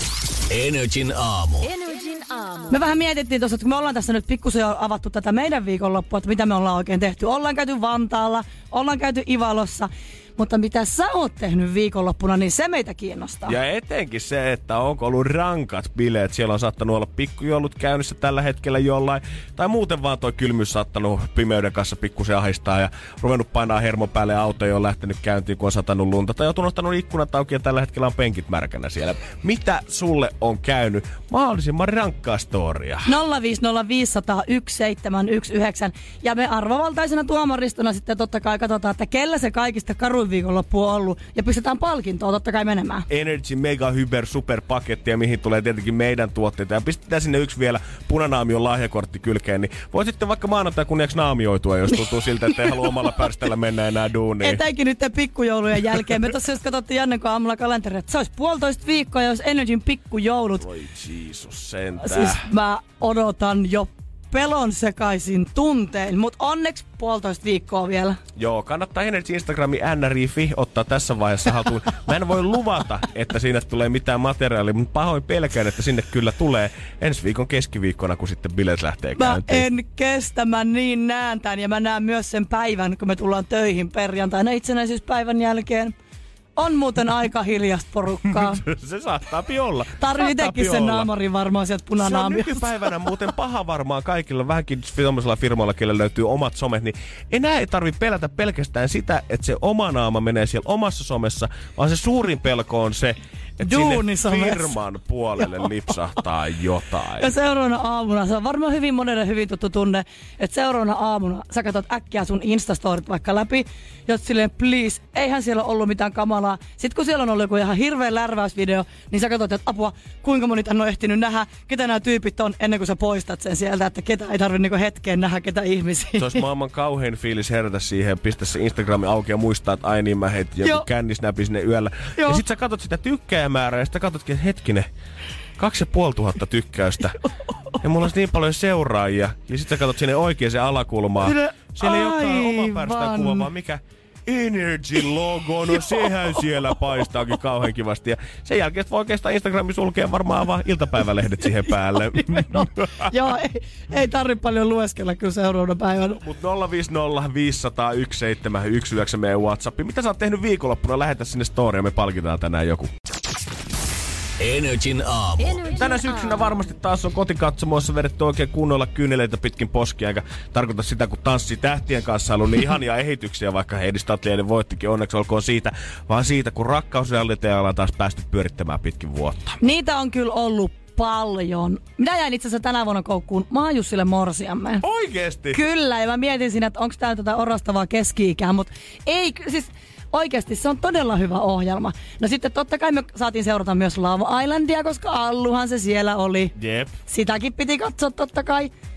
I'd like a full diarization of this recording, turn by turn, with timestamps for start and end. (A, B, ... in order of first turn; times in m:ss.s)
0:00.5-0:02.8 A
0:02.7-0:13.6 B
0:13.4-0:33.1 C
0:33.1-0:43.1 B
0:43.1-0:54.6 C
0:54.4-1:00.7 B
1:00.6-1:02.4 C
1:02.0-1:08.2 B
1:08.4-1:19.6 C
1:19.2-1:25.9 B
1:26.6-1:28.6 B
1:28.2-1:31.1 C
1:30.0-1:32.7 B
1:32.0-1:47.3 C
1:43.6-1:44.7 B
1:47.2-2:06.4 B
2:06.2-2:14.9 C
2:12.2-2:12.4 B
2:15.6-2:17.2 C
2:17.8-2:33.1 C
2:21.2-2:23.5 B
2:32.1-2:36.2 B
2:36.2-2:42.9 C
2:44.4-2:46.4 A
2:45.7-2:59.6 C
2:59.6-3:04.8 B
3:04.8-3:05.6 C
3:05.5-3:16.6 B
3:16.6-3:17.0 C
3:17.1-3:18.7 B